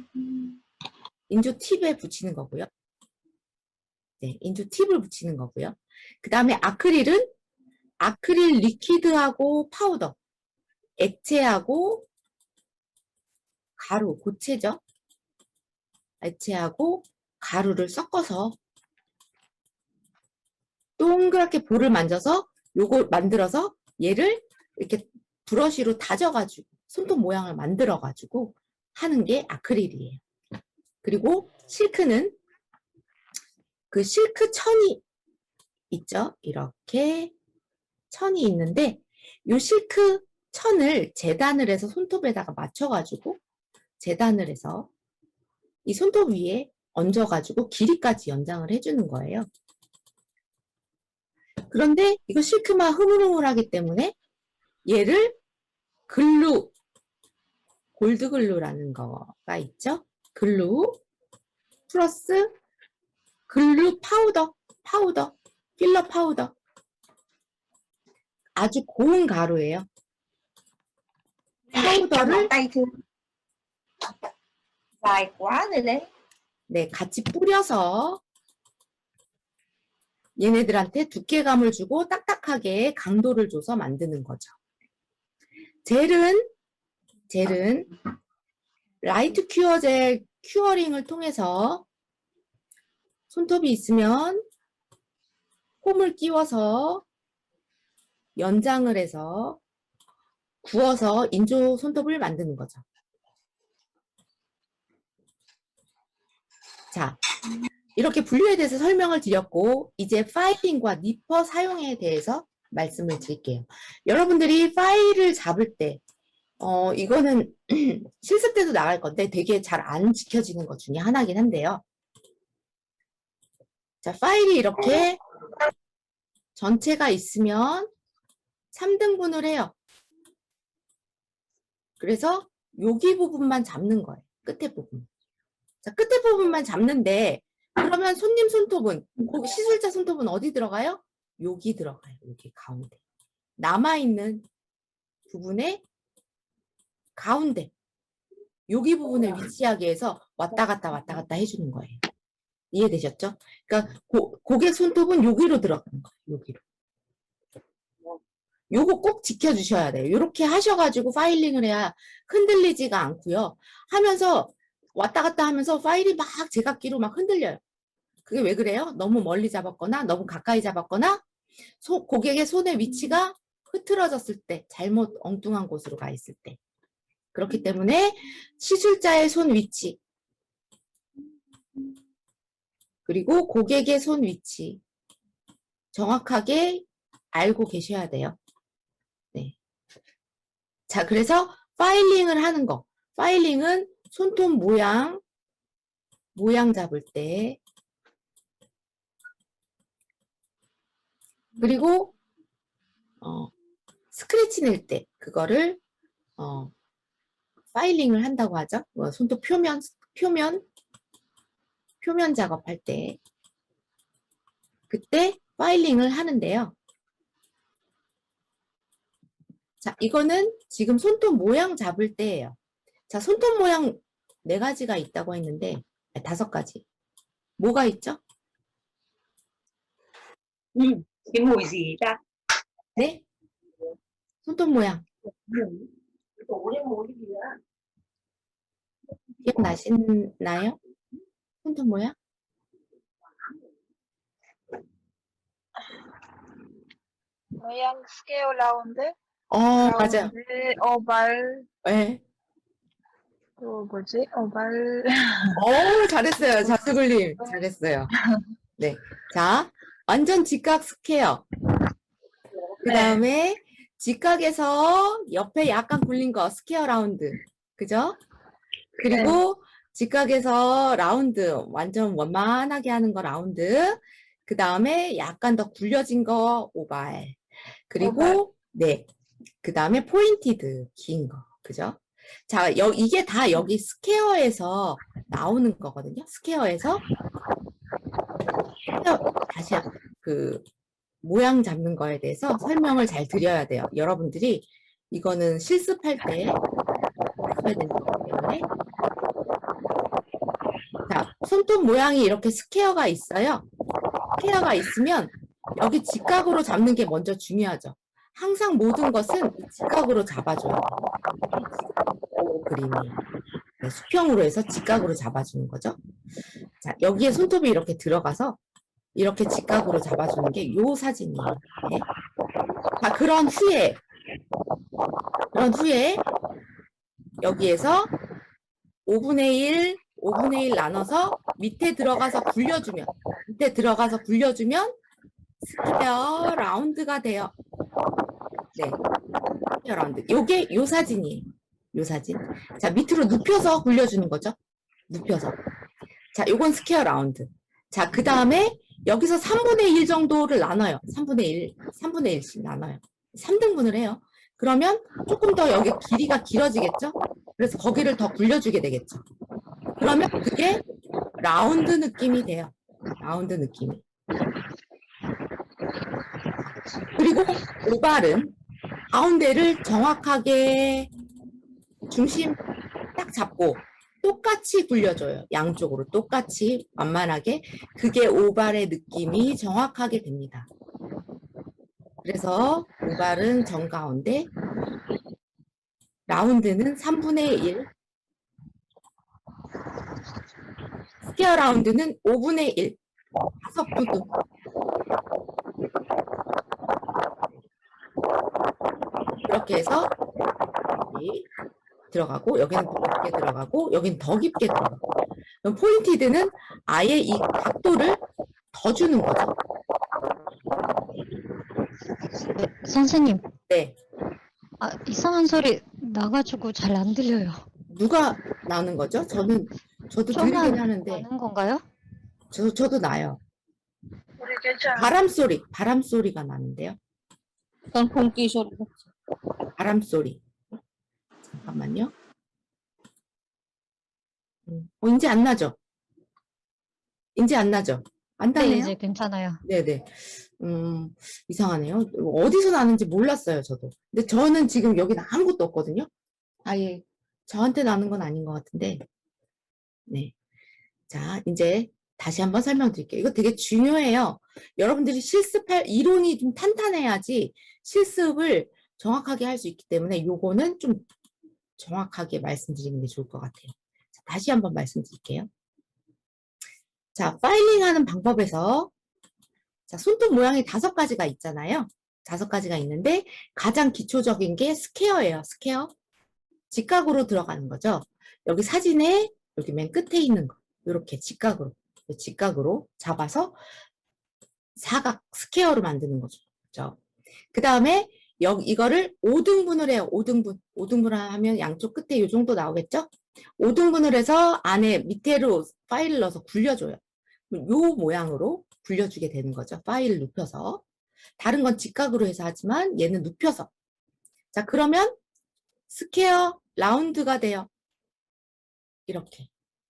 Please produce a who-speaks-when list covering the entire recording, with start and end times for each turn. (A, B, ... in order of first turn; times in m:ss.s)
0:01.3-0:02.7 A
0:04.2-0:07.3 A
0:08.0-0:10.2 A
0:11.0-0:12.1 A
0:13.8-0:14.8 A
0:16.2-0:18.6 A
0:21.0-0:30.2 A
0:31.0-0:32.4 A
0:33.9-0:35.0 A
0:35.9-0:37.3 A
0:38.1-0:43.4 A
0:44.0-0:44.9 A
0:45.8-0:49.5 A
0:51.7-0:54.2 A
0:54.8-0:55.4 A
0:56.1-0:56.7 A
0:58.0-1:01.0 A
1:01.9-1:02.5 A
1:03.5-1:06.6 A
1:08.6-1:09.8 A
1:11.7-1:13.0 B
1:11.8-1:12.5 A
1:15.0-1:16.1 B
1:16.7-1:18.2 A
1:20.4-1:24.5 A
1:25.8-1:26.5 A
1:27.3-1:27.9 A
1:29.0-1:31.8 A
1:33.3-1:34.4 A
1:35.8-1:37.0 A
1:38.4-1:39.6 A
1:40.6-1:42.8 A
1:46.9-1:47.2 A
1:47.9-1:56.0 A
1:56.6-2:01.8 A
2:04.0-2:05.2 A
2:06.5-2:07.9 A
2:08.7-2:09.8 A
2:12.0-2:15.1 A
2:15.8-2:23.0 A
2:23.6-2:24.4 A
2:25.3-2:25.8 A
2:27.2-2:27.7 A
2:28.7-2:32.0 A
2:32.7-2:36.6 A
2:38.7-2:47.6 A
2:48.2-2:51.2 A
2:51.8-2:56.6 A
2:57.3-3:00.0 A
3:03.0-3:04.8 A
3:05.9-3:08.4 A
3:10.9-3:15.2 A
3:16.3-3:17.6 A
3:21.6-3:22.1 A
3:23.2-3:23.5 A
3:24.1-3:25.8 A
3:26.4-3:26.7 A
3:27.7-3:30.6 A
3:32.0-3:33.2 A
3:34.9-3:36.7 A
3:39.8-3:42.6 A
3:43.1-3:46.8 A
3:47.6-3:48.2 A
3:50.7-3:52.2 B
3:53.0-3:53.2 A
3:54.4-3:55.0 A
3:55.4-3:57.6 B
3:59.4-4:00.8 A
4:01.6-4:02.1 A
4:07.6-4:09.1 C
4:09.5-4:10.3 A
4:09.8-4:11.6 C
4:11.8-4:12.2 A
4:13.6-4:15.5 C
4:15.5-4:18.1 A
4:18.8-4:21.4 A
4:22.8-4:28.2 A
4:22.8-4:23.1 C
4:29.0-4:39.1 A
4:29.0-4:29.4 C
4:38.0-4:38.4 C
4:39.6-4:47.0 A
4:48.9-4:50.6 A
4:51.2-4:56.6 A
4:57.5-4:58.7 A
5:01.1-5:03.6 A
5:04.4-5:11.0 A
5:12.5-5:13.2 A
5:13.8-5:16.0 A
5:16.8-5:18.6 A
5:19.1-5:22.0 A
5:23.0-5:24.0 A
5:25.5-5:26.3 A
5:27.4-5:28.1 A
5:29.0-5:35.0 A
5:35.6-5:37.5 A
5:39.8-5:44.5 A
5:45.1-5:45.6 A
5:46.3-5:59.2 A
6:00.0-6:00.8 A
6:01.4-6:04.0 A
6:07.1-6:08.5 A
6:09.1-6:11.1 A
6:12.1-6:12.6 A
6:13.2-6:20.7 A
6:22.2-6:24.5 A
6:26.3-6:27.9 A
6:31.2-6:33.0 A
6:33.6-6:34.3 A
6:39.4-6:40.1 A
6:41.0-6:41.5 A
6:42.1-6:45.0 A
6:45.6-6:49.5 A
6:52.5-6:53.4 D
6:53.7-6:54.0 A
6:54.8-6:57.6 D
6:57.9-7:01.3 A
7:00.3-7:01.8 D
7:02.5-7:03.4 A
7:04.4-7:05.1 C
7:04.9-7:07.0 A
7:07.9-7:09.1 B
7:09.8-7:10.4 A
7:11.6-7:12.1 A
7:14.7-7:15.8 A
7:17.3-7:19.0 A
7:18.6-7:19.6 D
7:19.6-7:26.1 A
7:26.6-7:29.0 A
7:30.1-7:30.3 A
7:31.1-7:41.0 A
7:41.8-7:45.5 A
7:47.1-7:48.9 A
7:49.9-7:55.9 A
7:56.7-8:03.6 A
8:04.8-8:07.0 A
8:07.5-8:20.8 A
8:21.4-8:23.7 A
8:24.5-8:25.2 A
8:25.9-8:27.7 A
8:29.1-8:29.5 A